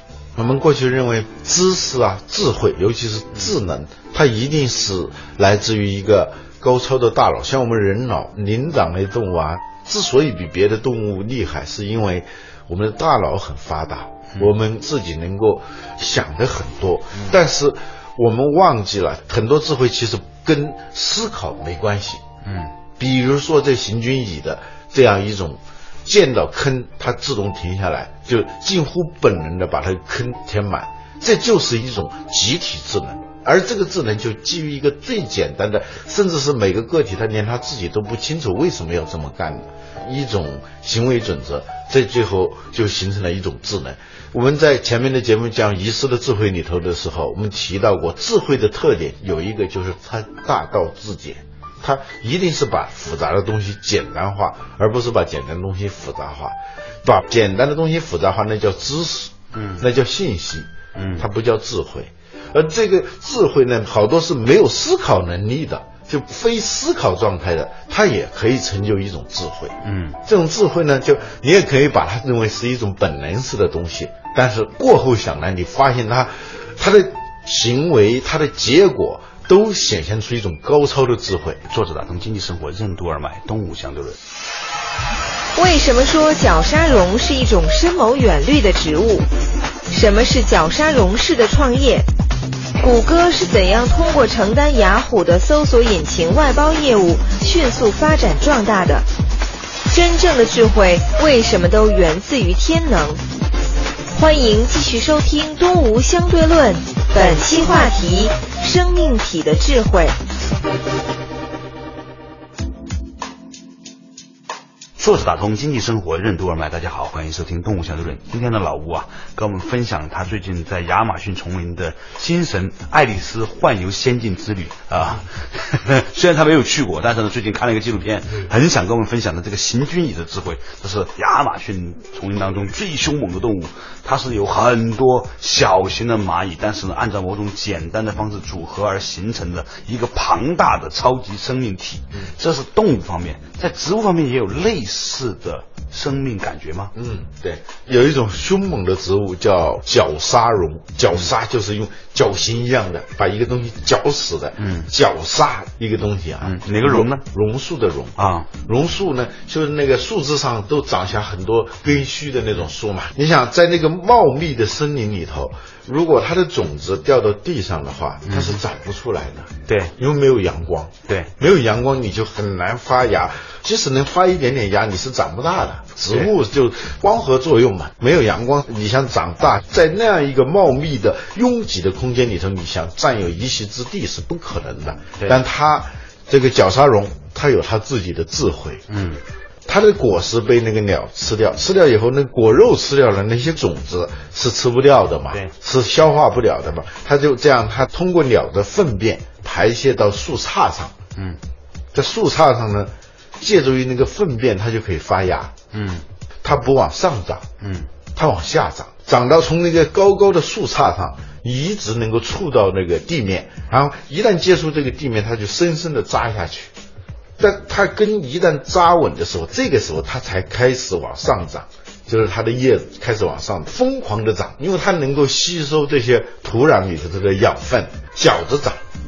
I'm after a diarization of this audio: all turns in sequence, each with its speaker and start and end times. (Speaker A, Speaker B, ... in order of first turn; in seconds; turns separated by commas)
Speaker A: 0.3-22.2, Speaker B: 22.4-22.7, Speaker A: 23.0-81.6, Speaker B: 59.5-59.9, Speaker B: 60.9-61.2, Speaker B: 69.8-70.2, Speaker B: 81.7-84.2, Speaker C: 85.6-89.3, Speaker C: 89.9-92.0, Speaker C: 92.8-99.0, Speaker C: 99.9-103.2, Speaker C: 104.1-110.2, Speaker B: 115.0-146.9, Speaker A: 146.9-188.8, Speaker B: 154.6-154.9, Speaker B: 156.4-157.2, Speaker B: 158.2-158.5, Speaker B: 168.3-168.6, Speaker B: 169.7-169.9, Speaker B: 188.9-189.2, Speaker A: 189.7-200.9, Speaker A: 201.9-205.5, Speaker B: 205.7-206.0, Speaker A: 206.4-207.4, Speaker B: 207.6-207.9, Speaker A: 208.1-216.7, Speaker A: 217.4-228.8